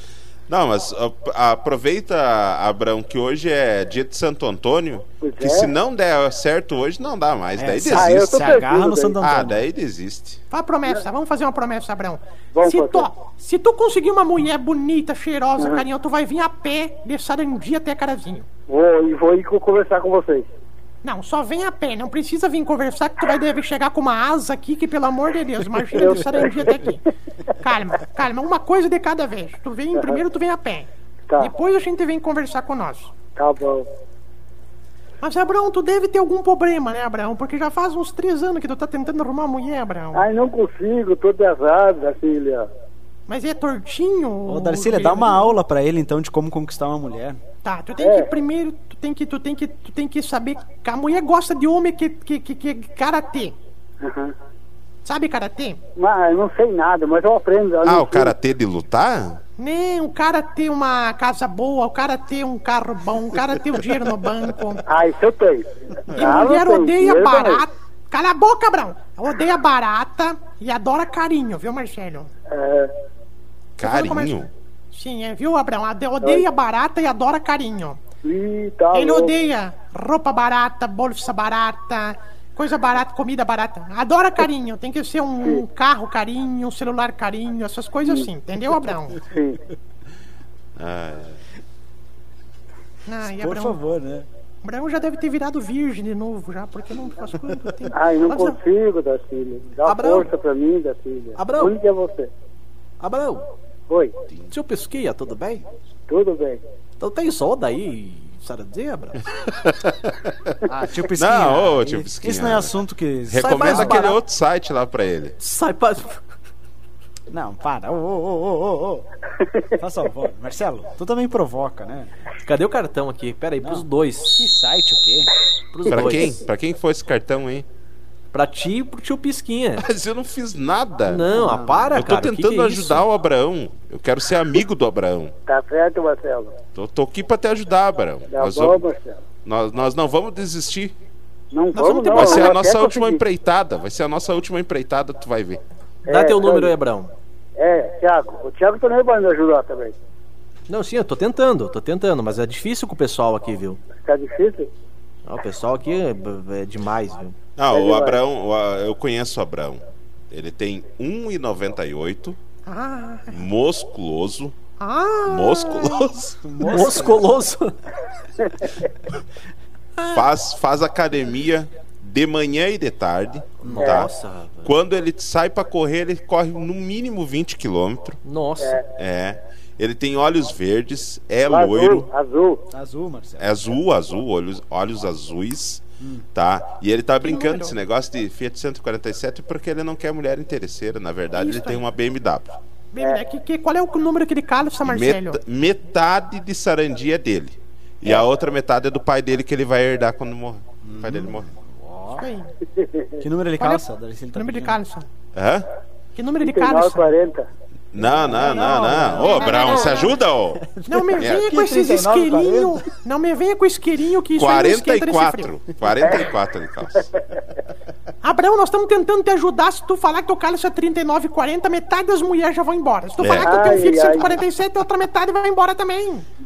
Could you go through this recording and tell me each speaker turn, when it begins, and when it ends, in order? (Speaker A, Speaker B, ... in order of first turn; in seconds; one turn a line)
Speaker A: 0.5-8.5
Speaker B: 5.2-5.7
Speaker C: 7.5-9.7
Speaker B: 7.9-9.2
Speaker A: 9.2-10.4
Speaker D: 10.5-18.5
Speaker B: 12.5-13.1
Speaker B: 18.7-20.5
Speaker D: 21.0-30.9
Speaker B: 25.9-26.9
Speaker D: 31.4-33.1
Speaker B: 33.4-33.9
Speaker D: 35.2-40.2
Speaker B: 40.1-42.7
Speaker D: 43.3-45.5
Speaker C: 44.5-47.4
Speaker D: 47.6-53.5
Speaker B: 48.0-48.3
Speaker B: 54.0-54.3
Speaker D: 55.0-55.8
Speaker B: 56.0-58.3
Speaker A: 57.8-59.4
Speaker D: 59.6-64.8
Speaker B: 64.8-67.7
Speaker D: 66.2-72.3
Speaker B: 72.5-72.9
Speaker A: 73.8-74.5
Speaker D: 73.8-78.0
Speaker B: 78.2-79.3
Speaker D: 78.9-89.2
Speaker B: 89.2-89.6
Speaker A: 90.8-91.4
Speaker D: 93.0-93.8
Speaker C: 93.2-94.3
Speaker D: 94.6-98.6
Speaker B: 97.9-102.3
Speaker E: 99.8-100.3
Speaker E: 101.4-101.8
Speaker E: 103.0-103.5
Speaker B: 103.9-104.1
Speaker E: 104.5-105.7
Speaker B: 106.1-106.6
Speaker E: 107.0-109.2
Speaker A: 109.3-110.5
Speaker C: 110.7-114.1
Speaker A: 111.2-112.7
Speaker A: 113.3-115.3
Speaker E: 113.4-114.2
Speaker E: 115.4-116.2
Speaker C: 117.3-119.1
Speaker C: 119.8-122.1
Speaker E: 122.4-124.5
Speaker C: 124.3-125.3
Speaker E: 125.7-126.4
Speaker A: 125.9-127.7
Speaker E: 128.3-129.8
Speaker A: 129.8-131.2
Speaker E: 131.1-133.0
Speaker C: 131.2-132.0
Speaker A: 131.9-135.3
Speaker B: 135.5-136.6
Speaker A: 136.7-138.8
Speaker B: 138.3-139.2
Speaker A: 139.4-140.9
Speaker B: 141.5-143.2
Speaker D: 141.7-142.6
Speaker A: 142.1-145.6
Speaker B: 146.1-146.7
Speaker E: 146.1-147.1
Speaker B: 147.6-149.9
Speaker E: 150.7-153.8
Speaker B: 153.9-154.7
Speaker E: 155.2-157.3
Speaker A: 157.6-162.4
Speaker B: 157.7-158.2
Speaker D: 162.7-163.4
Speaker A: 163.3-164.6
Speaker D: 164.8-166.2
Speaker A: 165.2-166.3
Speaker C: 166.4-167.3
Speaker E: 166.6-167.7
Speaker B: 168.4-168.7
Speaker D: 170.0-170.2
Speaker A: 170.1-174.1
Speaker C: 173.6-174.1
Speaker E: 173.6-174.7
Speaker A: 174.6-178.2
Speaker E: 178.2-178.8
Speaker A: 178.9-182.1
Speaker B: 181.5-182.6
Speaker C: 182.7-183.5
Speaker A: 183.4-185.8
Speaker C: 186.0-186.2
Speaker A: 186.3-192.6
Speaker D: 187.2-187.8
Speaker D: 191.3-191.8
Speaker D: 192.9-195.4
Speaker A: 194.8-201.5
Speaker C: 200.8-202.2
Speaker D: 202.1-202.5
Speaker B: 202.8-203.0
Speaker C: 203.2-204.8
Speaker D: 203.6-203.8
Speaker D: 204.3-205.1
Speaker A: 205.3-205.7
Speaker D: 206.2-207.1
Speaker B: 206.4-207.5
Speaker A: 207.9-210.6
Speaker C: 208.0-212.9
Speaker D: 208.4-210.2
Speaker D: 210.8-215.5
Speaker A: 211.2-211.5
Speaker A: 214.4-217.1
Speaker B: 216.0-216.3
Speaker D: 218.2-226.3
Speaker A: 223.2-224.0
Speaker B: 223.4-224.4